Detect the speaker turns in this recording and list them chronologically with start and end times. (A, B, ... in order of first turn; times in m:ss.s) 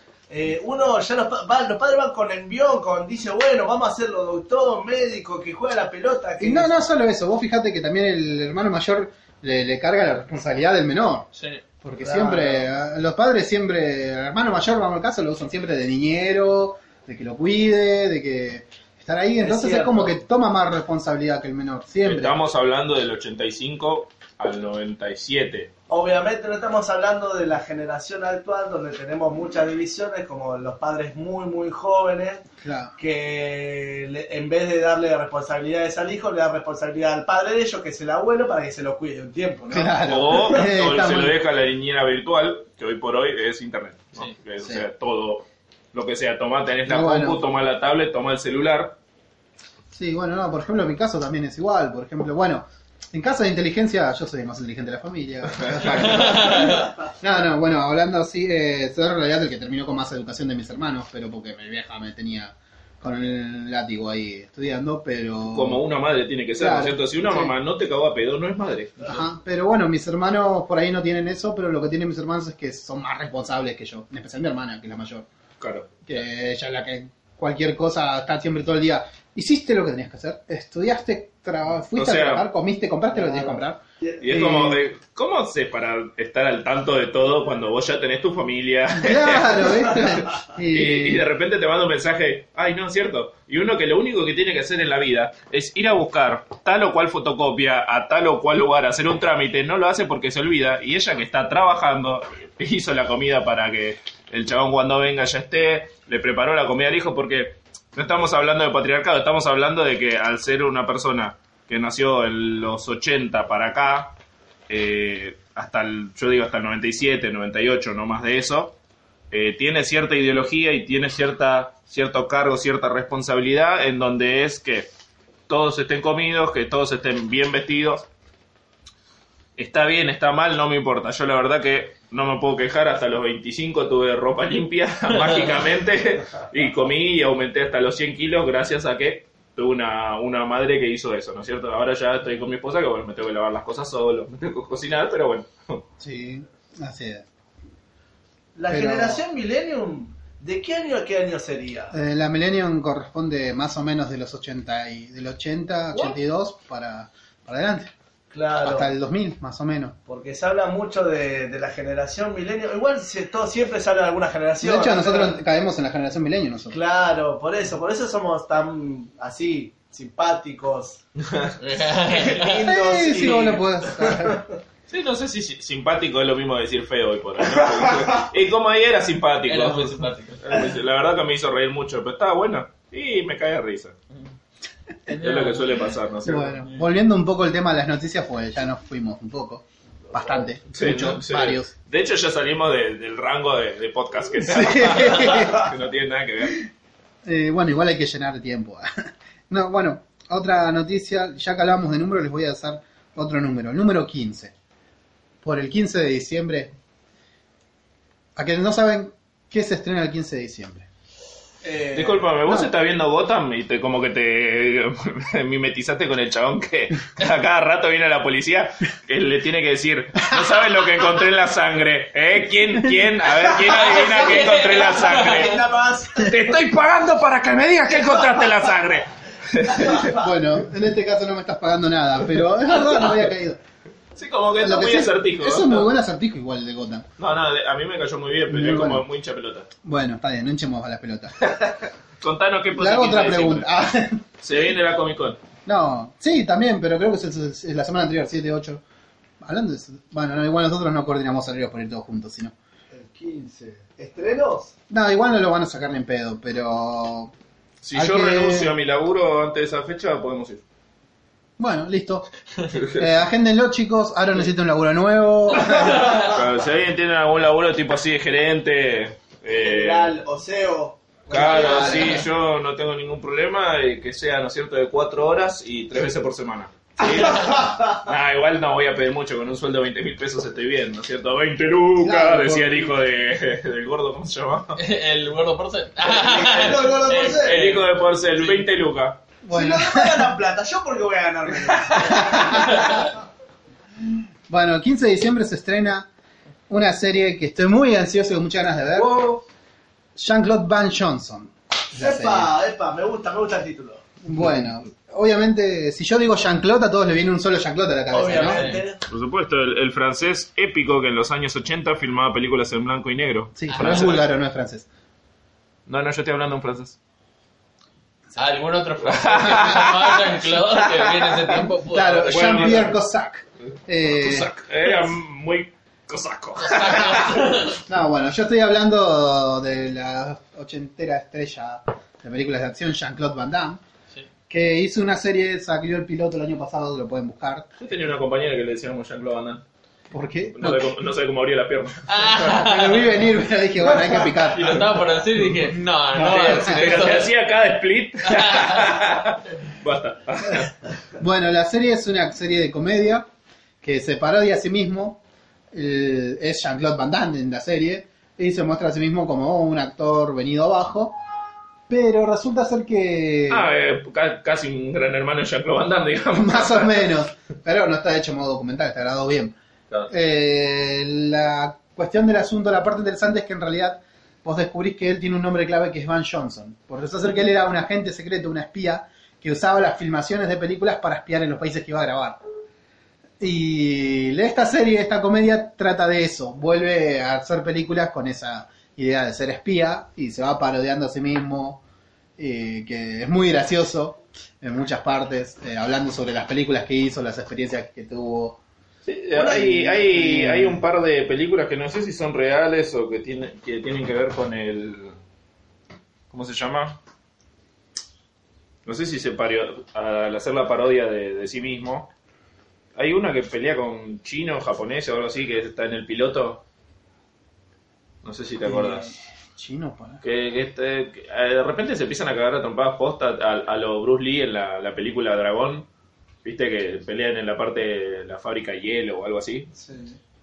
0:00.3-0:06.8 A
0:06.4-0:11.3 B
0:11.3-0:11.6 C
0:11.8-0:22.4 B
0:12.0-0:12.7 A
0:19.4-0:20.2 A
0:22.0-0:25.7 D
0:25.9-0:32.4 A
0:32.6-0:32.9 B
0:33.0-0:40.7 A
0:39.7-0:41.4 B
0:40.1-0:49.0 D
0:46.9-0:47.4 B
0:49.9-1:05.8 B
0:55.5-0:56.4 D
0:56.0-0:56.9 C
1:05.5-1:09.2 D
1:06.6-1:07.5 B
1:09.0-1:15.3 B
1:15.6-1:16.1 D
1:16.0-1:24.8 B
1:22.0-1:22.4 D
1:23.1-1:24.2 A
1:24.2-1:54.2 D
1:28.9-1:31.2 B
1:54.7-1:58.8 D
1:59.3-2:04.9 D
2:05.5-2:08.1 D
2:09.6-2:25.8 D
2:26.0-2:27.2 B
2:28.6-2:32.0 A
2:28.7-2:29.2 B
2:31.9-2:37.9 B
2:38.3-2:38.9 A
2:38.6-2:40.0 B
2:40.1-2:45.4 A
2:44.6-2:46.8 B
2:46.7-2:51.0 A
2:51.6-2:52.7 C
2:52.0-2:54.5 A
2:52.6-2:54.4 B
2:54.9-3:03.9 D
2:59.5-3:00.4 C
3:05.1-3:05.8 C
3:05.2-3:06.6 D
3:06.2-3:11.7 B
3:10.7-3:16.6 D
3:14.4-3:15.7 B
3:17.2-3:24.5 B
3:25.4-3:26.7 B
3:28.4-3:30.8 B
3:31.6-3:32.3 A
3:31.9-3:45.6 D
3:43.5-3:46.3 A
3:43.8-3:45.5 C
3:46.2-3:50.1 D
3:49.7-3:50.2 A
3:50.1-3:53.6 B
3:54.2-3:55.9 D
3:54.6-3:57.0 B
3:57.2-3:59.7 D
3:58.5-3:59.0 B
3:59.8-4:01.5 B
4:01.6-4:03.7 D
4:02.8-4:04.2 B
4:04.4-4:05.4 D
4:05.6-4:08.8 B
4:09.4-4:12.5 B
4:12.9-4:14.7 A
4:14.9-4:17.3 B
4:17.8-4:20.6 D
4:17.9-4:18.7 B
4:21.6-4:22.3 B
4:22.7-4:23.0 D
4:22.9-4:26.3 B
4:25.9-4:26.3 A
4:26.1-4:30.1 D
4:29.5-4:32.2 A
4:31.3-4:44.8 D
4:31.3-4:32.2 B
4:37.0-4:38.0 A
4:42.0-4:42.9 B
4:44.8-4:47.9 C
4:46.0-4:47.6 A
4:47.4-4:49.2 D
4:49.4-4:50.3 B
4:49.5-4:53.1 A
4:51.9-4:52.1 D
4:52.0-4:52.8 B
4:54.0-4:56.1 B
4:56.7-4:59.2 B
4:59.0-4:59.4 A
5:00.2-5:02.5 B
5:02.0-5:04.0 A
5:04.2-5:08.7 B
5:08.1-5:09.0 A
5:08.3-5:08.8 C
5:09.1-5:14.3 D
5:13.6-5:14.8 B
5:13.7-5:14.1 C
5:15.9-5:17.0 D
5:18.3-5:22.9 C
5:19.1-5:21.4 D
5:21.8-5:24.5 B
5:22.3-5:23.0 D
5:24.0-5:27.5 D
5:26.6-5:27.8 C
5:27.7-5:33.8 B
5:34.5-5:37.7 B
5:37.8-5:39.6 D
5:40.1-5:40.9 B
5:40.5-5:42.4 D
5:42.1-5:43.1 C
5:42.4-5:44.9 B
5:44.5-5:47.3 C
5:46.1-5:46.9 B
5:46.2-5:50.8 D
5:48.2-5:48.8 C
5:51.2-5:53.3 B
5:53.8-5:55.2 B
5:55.7-6:01.2 B
6:01.9-6:03.7 B
6:03.5-6:07.1 D
6:06.3-6:09.5 B
6:10.1-6:22.4 B
6:23.4-6:31.8 B
6:32.4-6:38.6 B
6:39.0-6:45.2 D
6:39.4-6:39.8 A
6:39.6-6:40.8 B
6:46.3-6:47.0 D
6:48.8-6:52.1 D
6:53.0-6:56.6 D
6:58.2-6:59.1 D
6:58.6-7:00.2 B
7:00.2-7:05.9 D
7:06.4-7:09.7 D
7:09.7-7:10.2 A